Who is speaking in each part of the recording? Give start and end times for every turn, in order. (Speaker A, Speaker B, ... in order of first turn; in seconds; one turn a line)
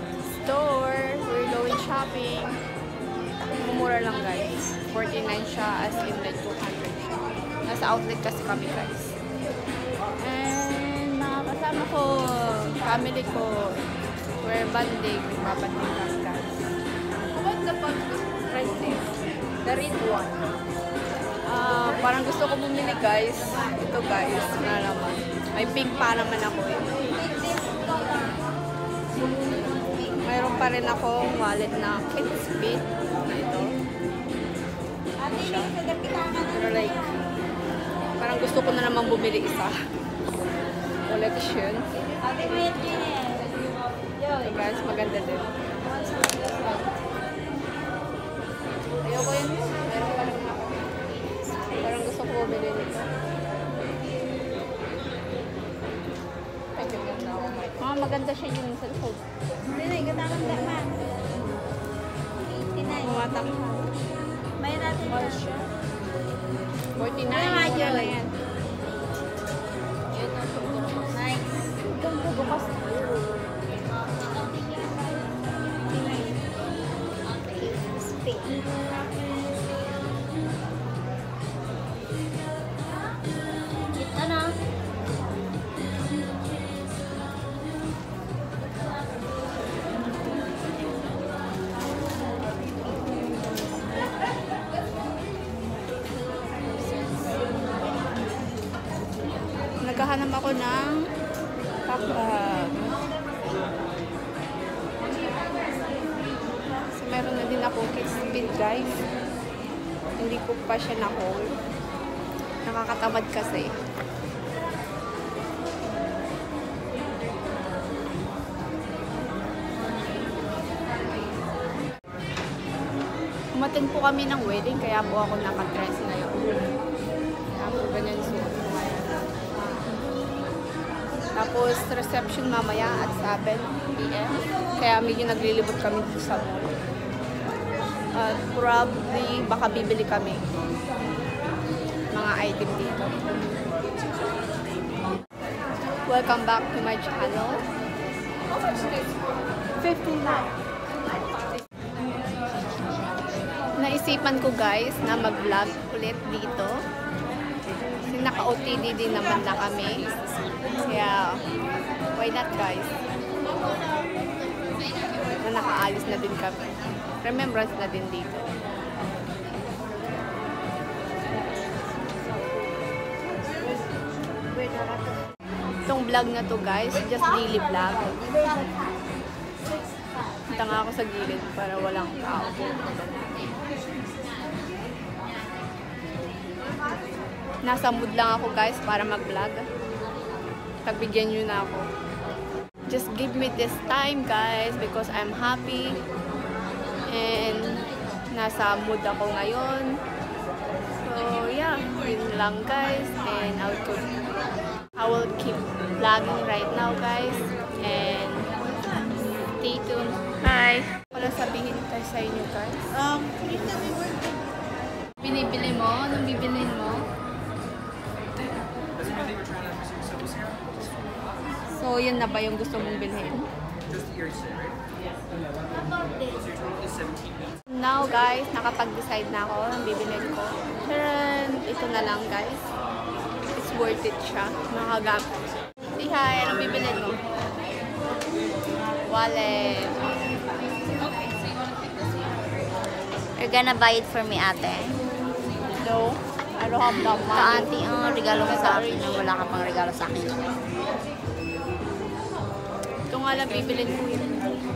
Speaker A: 0.4-2.5
Speaker A: 3.6-7.0
Speaker A: 7.7-9.2
Speaker A: 10.2-13.8
Speaker A: 14.4-16.6
Speaker A: 17.3-19.1
Speaker A: 19.6-20.4
Speaker A: 21.5-26.9
Speaker B: 27.1-28.4
Speaker A: 30.2-33.8
Speaker B: 35.2-37.0
Speaker A: 35.3-35.7
Speaker A: 36.5-37.0
Speaker A: 38.2-39.8
Speaker A: 41.1-41.9
Speaker B: 42.2-43.5
Speaker B: 44.2-44.6
Speaker A: 44.4-45.5
Speaker B: 45.9-46.8
Speaker A: 49.0-51.0
Speaker B: 51.5-52.0
Speaker A: 51.8-53.1
Speaker A: 56.8-59.2
Speaker B: 59.7-61.0
Speaker B: 62.6-63.5
Speaker A: 63.0-63.9
Speaker B: 64.6-65.6
Speaker A: 65.0-65.7
Speaker A: 67.0-68.3
Speaker B: 67.3-68.2
Speaker B: 70.1-71.7
Speaker A: 71.8-73.5
Speaker B: 74.4-74.9
Speaker A: 75.9-76.4
Speaker B: 77.3-78.7
Speaker B: 83.9-84.6
Speaker A: 99.8-101.1
Speaker A: 101.9-102.9
Speaker A: 107.0-109.0
Speaker A: 110.2-111.5
Speaker A: 112.7-113.7
Speaker A: 123.5-126.7
Speaker A: 127.6-129.2
Speaker A: 131.4-136.8
Speaker A: 138.2-140.4
Speaker A: 142.1-143.3
Speaker A: 146.1-147.6
Speaker A: 149.8-150.5
Speaker A: 153.8-156.8
Speaker A: 158.1-160.0
Speaker A: 160.8-161.4
Speaker A: 162.2-162.9
Speaker A: 165.4-166.7
Speaker A: 167.2-168.5
Speaker A: 175.9-178.1
Speaker A: 180.5-183.2
Speaker A: 187.6-189.7
Speaker A: 190.8-191.9
Speaker A: 192.9-196.0
Speaker A: 197.1-199.9
Speaker A: 201.0-204.1
Speaker A: 205.0-208.5
Speaker A: 209.6-213.5
Speaker A: 215.2-217.1
Speaker A: 221.7-223.5
Speaker A: 227.7-232.6
Speaker A: 233.6-235.3
Speaker A: 236.0-237.2
Speaker A: 239.1-240.0
Speaker B: 243.4-245.0
Speaker A: 245.8-247.8
Speaker B: 246.9-250.4
Speaker A: 248.4-249.1
Speaker A: 253.1-254.4